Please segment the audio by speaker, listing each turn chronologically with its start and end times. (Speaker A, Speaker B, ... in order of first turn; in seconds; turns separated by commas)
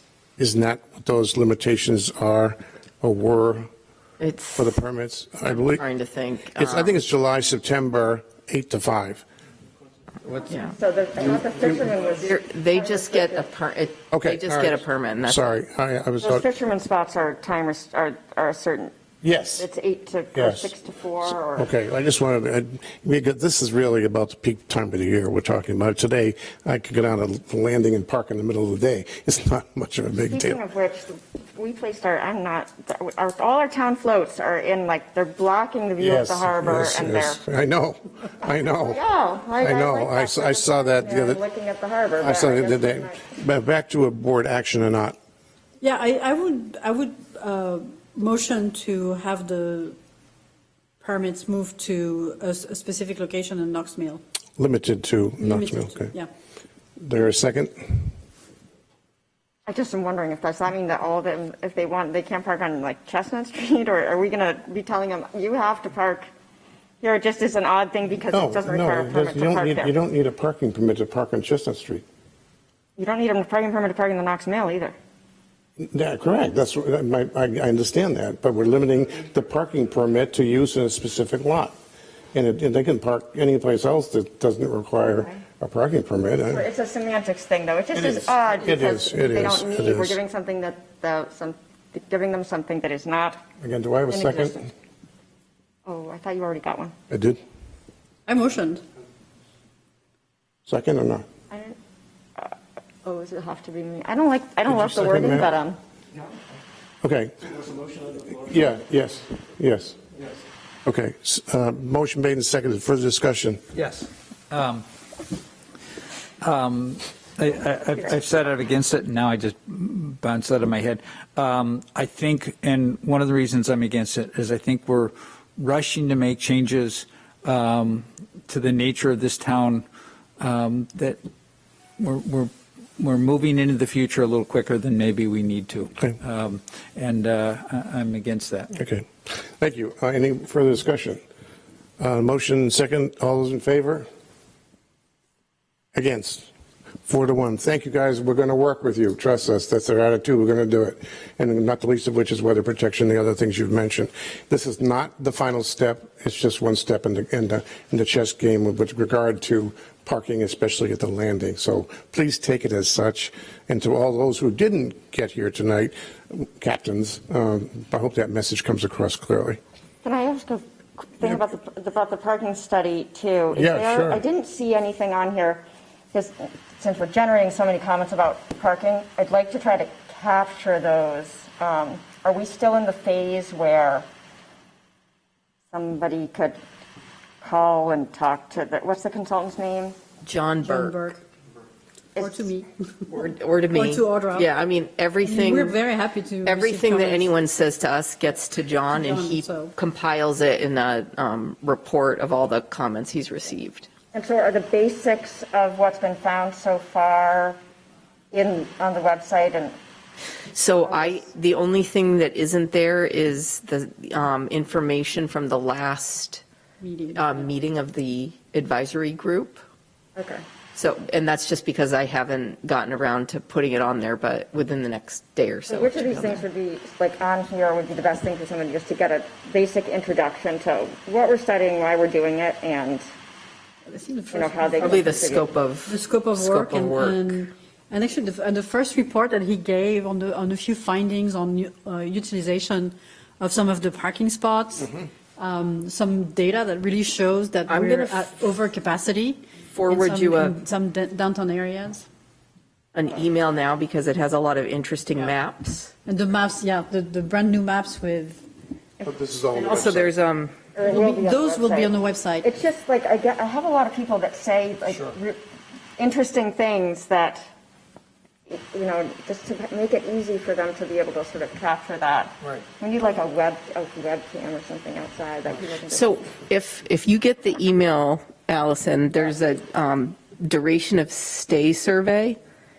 Speaker A: 0.4-3.7, Speaker B: 4.2-4.8, Speaker A: 4.5-5.8, Speaker B: 5.5-7.0, Speaker A: 6.5-9.2, Speaker B: 10.5-10.7, Speaker C: 10.8-13.5, Speaker B: 12.2-15.5, Speaker A: 14.1-16.4, Speaker C: 16.2-18.9, Speaker A: 19.2-19.7, Speaker C: 19.6-21.7, Speaker A: 20.3-20.7, Speaker A: 21.5-30.6, Speaker C: 30.3-37.4, Speaker A: 36.0-39.0, Speaker C: 38.9-43.2, Speaker A: 39.6-41.4, Speaker A: 42.2-45.2, Speaker D: 45.8-50.0, Speaker D: 51.0-54.2, Speaker A: 54.6-56.1, Speaker D: 55.4-56.3, Speaker A: 57.0-58.1, Speaker C: 59.7-66.3, Speaker C: 67.0-69.9, Speaker A: 68.3-72.0, Speaker C: 73.0-74.9, Speaker A: 75.8-81.8, Speaker A: 82.3-86.7, Speaker C: 86.5-93.4, Speaker A: 87.9-90.2, Speaker A: 93.6-94.7, Speaker C: 94.1-94.6, Speaker C: 95.9-96.9, Speaker A: 97.1-97.4, Speaker D: 98.3-98.8, Speaker A: 100.7-101.2, Speaker C: 103.0-105.8, Speaker A: 104.7-105.5, Speaker A: 107.0-107.6, Speaker A: 108.1-110.0, Speaker A: 110.8-113.6, Speaker E: 113.7-114.8, Speaker E: 116.4-129.8, Speaker E: 130.4-131.2, Speaker E: 132.0-138.7, Speaker A: 138.7-139.1, Speaker A: 139.6-141.2, Speaker A: 142.0-144.1, Speaker A: 145.9-146.5, Speaker A: 147.1-169.6, Speaker C: 170.0-170.6, Speaker C: 171.2-184.1, Speaker A: 173.5-174.2, Speaker C: 185.7-186.6, Speaker C: 187.4-190.0, Speaker B: 190.2-191.0, Speaker D: 190.6-191.2, Speaker D: 192.2-192.7, Speaker B: 193.1-195.8, Speaker D: 193.7-194.5, Speaker D: 195.2-197.3, Speaker B: 196.4-203.9, Speaker D: 198.9-199.7, Speaker C: 204.1-207.6, Speaker C: 208.3-209.8, Speaker B: 210.5-216.4, Speaker D: 216.8-217.4, Speaker B: 217.1-219.6, Speaker C: 220.2-220.4, Speaker B: 220.7-226.4, Speaker C: 225.7-233.1, Speaker D: 233.9-252.1, Speaker C: 234.3-235.4, Speaker B: 234.8-237.4, Speaker B: 247.7-248.3, Speaker B: 249.7-250.5, Speaker B: 252.9-255.9, Speaker D: 256.0-258.5, Speaker A: 259.0-260.1, Speaker B: 259.5-260.6, Speaker C: 260.8-261.9, Speaker D: 260.8-262.5, Speaker C: 262.4-265.4, Speaker C: 266.0-267.5, Speaker C: 268.5-276.1, Speaker B: 275.8-282.4